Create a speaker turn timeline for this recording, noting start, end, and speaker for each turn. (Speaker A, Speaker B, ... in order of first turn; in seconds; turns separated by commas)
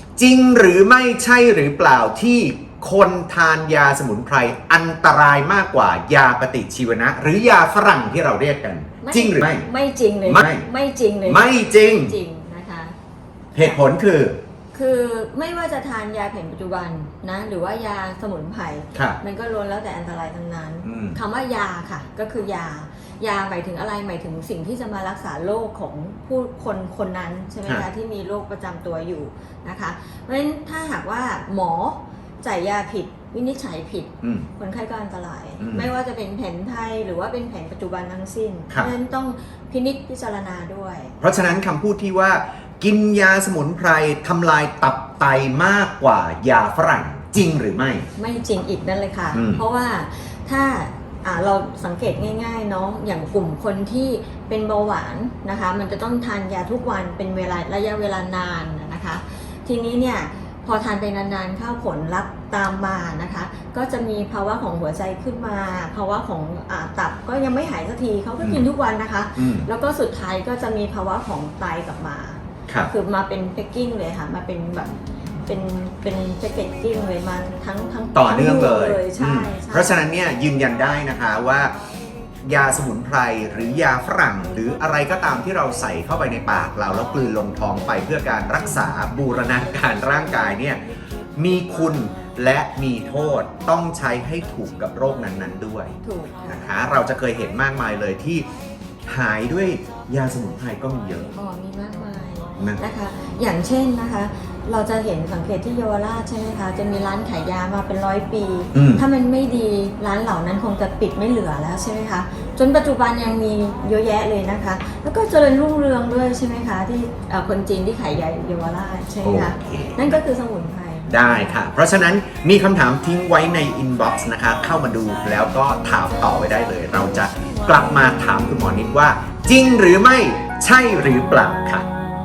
Speaker A: 0.2-9.7, Speaker B: 9.0-13.0, Speaker A: 10.3-10.7, Speaker A: 11.3-12.2, Speaker A: 13.6-14.4, Speaker B: 13.6-13.8, Speaker B: 14.7-41.1, Speaker A: 20.8-21.2, Speaker A: 35.6-35.9, Speaker A: 41.2-48.1, Speaker B: 48.2-75.0, Speaker A: 49.3-49.6, Speaker A: 69.4-69.7, Speaker B: 75.5-80.0, Speaker A: 78.2-81.7, Speaker A: 82.4-90.8, Speaker A: 91.4-98.5, Speaker B: 96.0-96.7, Speaker A: 99.1-101.3, Speaker B: 101.3-121.6, Speaker A: 108.7-109.0, Speaker A: 119.2-120.2, Speaker A: 121.1-131.9